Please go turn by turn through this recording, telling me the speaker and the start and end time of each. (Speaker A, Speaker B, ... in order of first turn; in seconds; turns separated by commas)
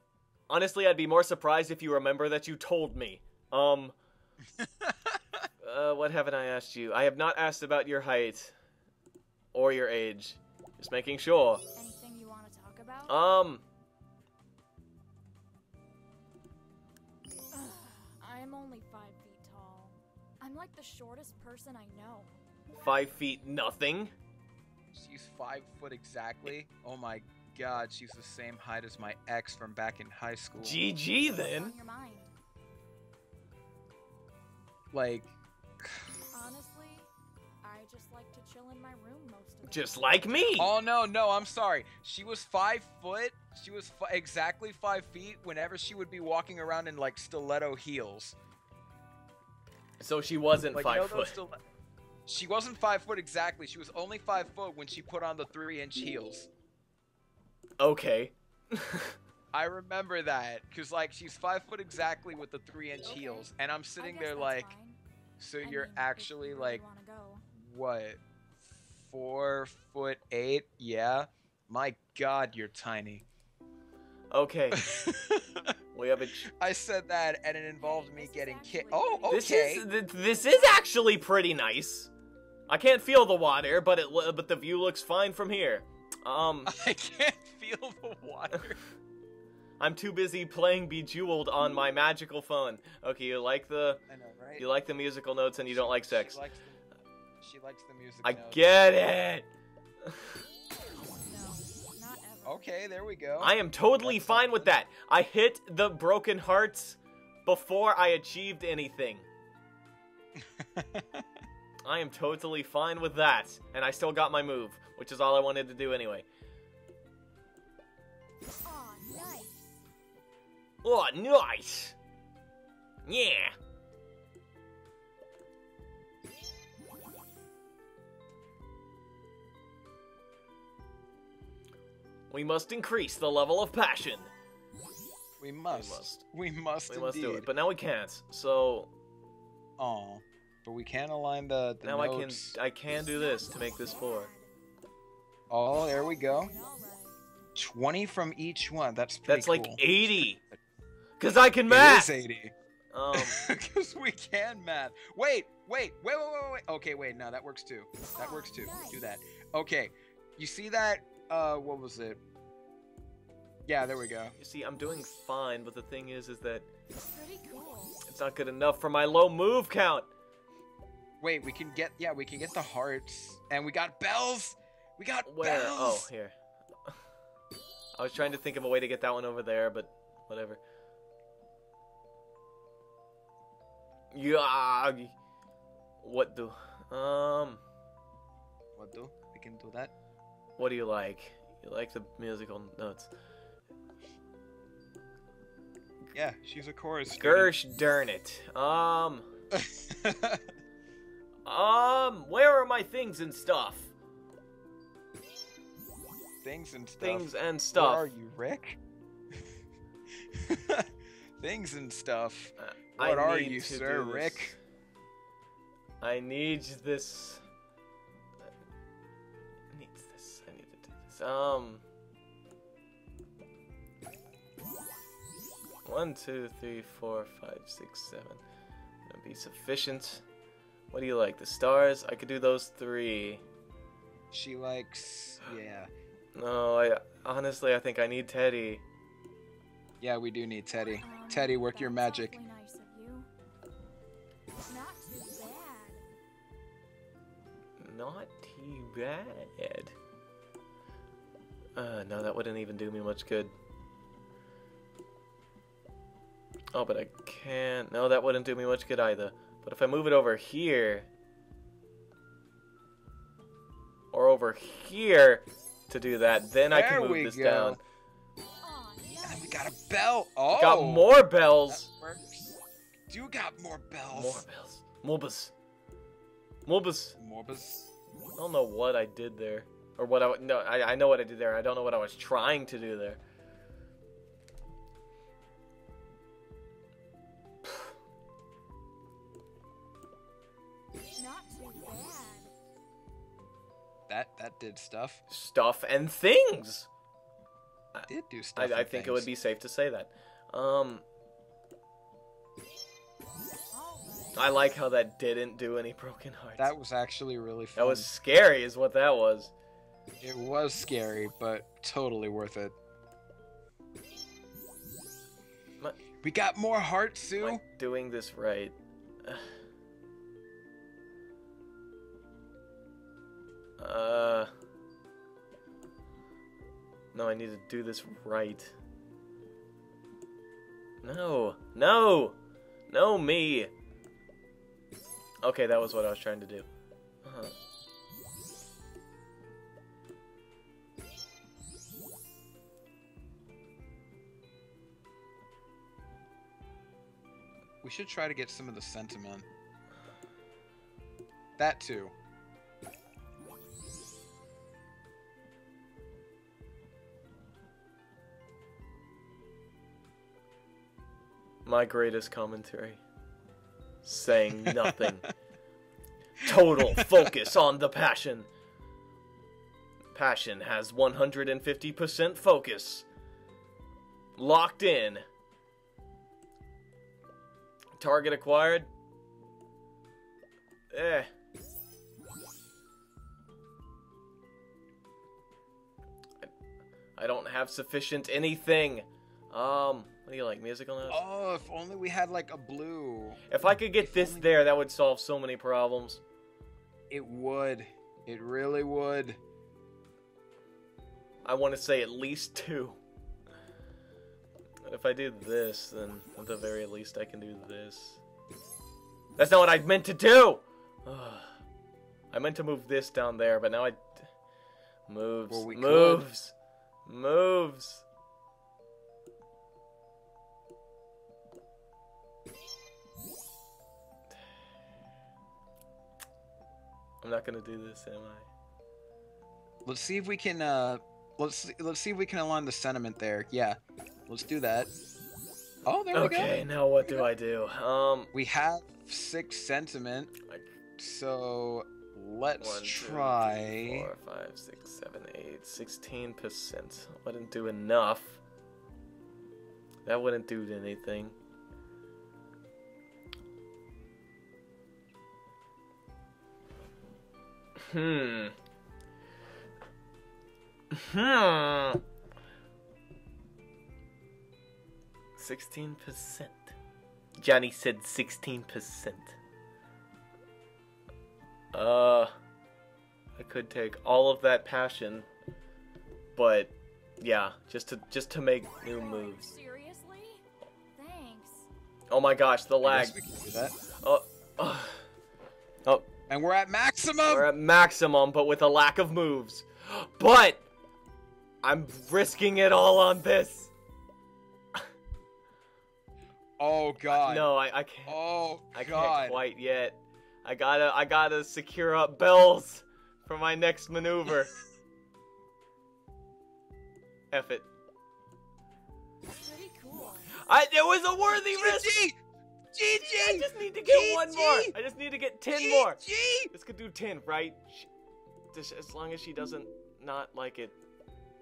Speaker A: 0.5-4.0, Speaker B: 4.6-5.2, Speaker A: 5.6-8.5, Speaker A: 9.5-11.6, Speaker C: 11.8-13.2, Speaker A: 13.1-13.6, Speaker C: 17.5-22.4, Speaker A: 22.7-24.1, Speaker B: 24.9-30.8, Speaker A: 30.6-31.7, Speaker C: 31.3-32.3, Speaker B: 34.9-36.1, Speaker C: 36.3-37.1, Speaker C: 37.6-40.5, Speaker A: 39.7-40.7, Speaker B: 40.6-48.4, Speaker A: 50.0-51.4, Speaker B: 50.7-51.6, Speaker B: 52.3-56.5, Speaker A: 57.8-59.1, Speaker B: 59.5-64.7, Speaker C: 63.0-65.0, Speaker B: 65.4-66.8, Speaker C: 65.6-67.4, Speaker B: 67.5-73.2, Speaker A: 74.3-74.9, Speaker B: 74.7-75.7, Speaker A: 75.9-76.5, Speaker B: 76.5-79.8, Speaker C: 77.8-80.9, Speaker A: 79.3-82.1, Speaker A: 82.7-86.7, Speaker B: 86.6-88.8, Speaker A: 89.8-94.0, Speaker B: 94.1-94.7, Speaker A: 94.6-96.4, Speaker B: 95.7-96.8, Speaker B: 97.4-98.6, Speaker A: 98.2-99.5, Speaker A: 100.0-100.3, Speaker C: 101.0-102.8, Speaker B: 102.4-104.8, Speaker A: 103.4-109.2, Speaker B: 110.4-111.3, Speaker A: 111.8-116.3, Speaker C: 118.6-119.7, Speaker A: 120.8-122.0, Speaker A: 123.0-123.5, Speaker A: 132.3-134.3, Speaker B: 135.4-137.5, Speaker A: 135.7-136.2, Speaker A: 136.9-138.9, Speaker B: 139.8-142.6, Speaker A: 141.8-144.3, Speaker C: 143.1-144.5, Speaker B: 145.5-146.5, Speaker C: 145.8-147.2, Speaker B: 147.5-150.6, Speaker A: 149.3-150.4, Speaker A: 151.2-152.1, Speaker B: 151.7-152.5, Speaker A: 152.9-153.4, Speaker B: 153.1-162.2, Speaker C: 158.1-159.0, Speaker B: 163.6-164.3, Speaker A: 164.4-166.7, Speaker C: 166.9-168.0, Speaker A: 168.0-170.1, Speaker B: 171.2-176.1, Speaker A: 175.2-176.3, Speaker A: 177.9-180.6, Speaker A: 184.1-185.1, Speaker A: 186.0-187.6, Speaker B: 188.8-189.9, Speaker A: 190.6-193.1, Speaker B: 196.1-197.5, Speaker A: 197.2-199.3, Speaker B: 199.5-200.4, Speaker A: 201.4-203.9, Speaker B: 206.4-208.8, Speaker A: 207.0-208.1, Speaker B: 210.2-214.5, Speaker A: 212.6-214.6, Speaker A: 216.0-217.4, Speaker A: 219.7-221.8, Speaker A: 225.8-228.4, Speaker A: 229.1-230.2, Speaker A: 230.9-233.4, Speaker B: 234.3-235.9, Speaker A: 236.3-238.8, Speaker B: 240.0-242.3, Speaker C: 240.8-243.3, Speaker C: 244.7-246.0, Speaker A: 247.8-249.9, Speaker A: 251.8-253.5, Speaker A: 256.7-261.1, Speaker A: 264.1-267.8, Speaker B: 266.7-267.8, Speaker C: 268.6-269.7, Speaker B: 269.2-271.1, Speaker A: 270.5-271.9, Speaker B: 271.6-274.4, Speaker A: 274.1-275.5, Speaker A: 276.6-277.1, Speaker B: 277.2-277.9, Speaker A: 278.4-283.2, Speaker C: 291.1-292.5, Speaker B: 294.1-295.2, Speaker A: 295.3-296.9, Speaker A: 297.9-301.0, Speaker B: 298.1-299.3, Speaker C: 303.7-304.7, Speaker A: 304.3-306.7, Speaker B: 306.6-308.1, Speaker A: 307.8-309.5, Speaker B: 310.2-312.8, Speaker B: 316.2-317.6, Speaker A: 317.4-319.5, Speaker A: 323.8-324.5, Speaker A: 327.1-328.7, Speaker A: 331.0-332.4, Speaker A: 332.9-333.7, Speaker A: 335.4-336.7, Speaker A: 337.2-337.5, Speaker B: 347.8-349.5, Speaker B: 351.6-352.1, Speaker A: 361.6-363.0, Speaker A: 364.0-365.2, Speaker B: 364.7-365.2, Speaker A: 366.4-368.5, Speaker B: 366.9-367.2, Speaker A: 370.1-373.1, Speaker A: 374.4-375.2, Speaker A: 378.0-378.9, Speaker A: 380.9-381.3, Speaker A: 387.2-391.2, Speaker B: 391.1-393.4, Speaker A: 393.5-396.2, Speaker B: 394.0-394.5, Speaker B: 397.1-399.4, Speaker A: 401.4-403.0, Speaker A: 404.8-408.2, Speaker A: 409.4-411.5, Speaker A: 412.3-414.2, Speaker A: 415.1-416.5, Speaker B: 415.5-416.2, Speaker A: 417.1-418.0, Speaker A: 427.2-428.5, Speaker B: 429.8-434.9, Speaker B: 435.9-436.5, Speaker A: 436.1-438.3, Speaker B: 438.3-440.3, Speaker A: 440.4-440.8, Speaker B: 441.0-444.1, Speaker A: 442.6-448.4, Speaker A: 450.1-451.4, Speaker A: 457.8-458.5, Speaker A: 460.9-462.0, Speaker A: 465.4-466.7, Speaker A: 467.4-469.4, Speaker A: 471.7-472.3, Speaker A: 473.4-475.3, Speaker A: 476.3-479.5, Speaker C: 478.9-480.4, Speaker C: 480.9-481.7, Speaker A: 482.1-483.1, Speaker B: 482.8-483.8, Speaker A: 484.0-485.0, Speaker B: 486.3-487.5, Speaker A: 487.3-490.6, Speaker A: 491.6-493.7, Speaker B: 496.6-497.5, Speaker A: 497.1-498.2, Speaker B: 498.1-499.4, Speaker A: 498.7-504.5, Speaker A: 507.3-507.7, Speaker C: 509.4-510.4, Speaker A: 510.4-512.0, Speaker B: 511.3-512.2, Speaker B: 512.7-514.8, Speaker A: 512.9-517.9, Speaker B: 515.5-516.5, Speaker A: 518.5-520.8